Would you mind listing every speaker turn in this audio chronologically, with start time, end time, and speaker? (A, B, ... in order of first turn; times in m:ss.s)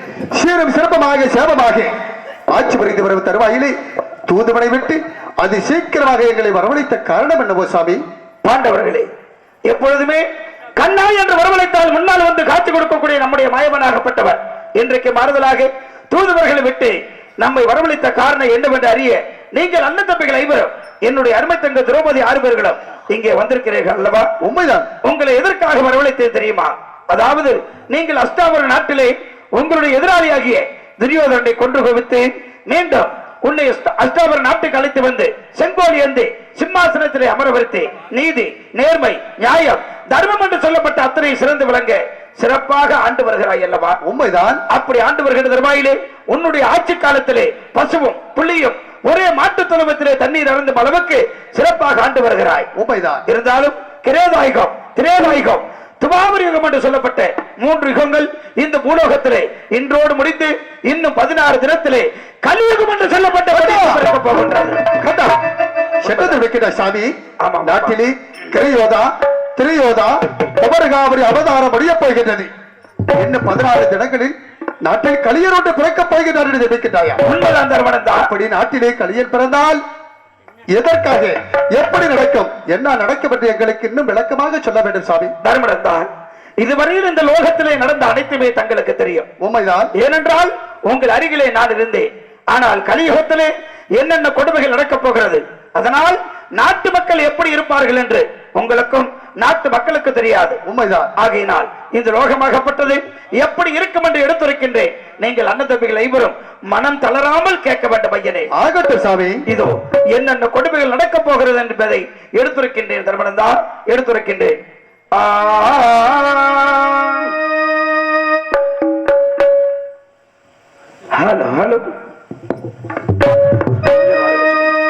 0:00.3-0:01.9 A
0:02.5-0:03.8 A
0:04.3-0:08.0 A
0:08.4-0:09.1 B
0:09.7-0:10.2 B
0:10.8-0:24.3 B
0:24.4-0:24.9 A
0:25.0-0:44.0 B
0:44.0-0:44.6 A
0:44.7-0:52.7 B
0:52.8-0:53.2 A
0:53.3-1:04.8 B
1:03.5-1:04.0 A
1:05.0-1:05.3 A
1:06.0-1:12.5 A
1:06.0-1:06.4 B
1:07.4-1:08.0 B
1:13.2-1:17.2 A
1:17.2-1:18.3 B
1:18.3-1:19.8 A
1:20.7-1:25.3 A
1:25.4-1:26.1 B
1:26.6-1:29.3 B
1:29.4-1:29.9 A
1:29.9-1:40.6 B
1:40.6-1:41.1 A
1:41.2-1:48.5 B
1:48.5-1:49.4 A
1:49.5-1:54.6 B
1:55.1-1:57.3 B
2:01.1-2:01.9 B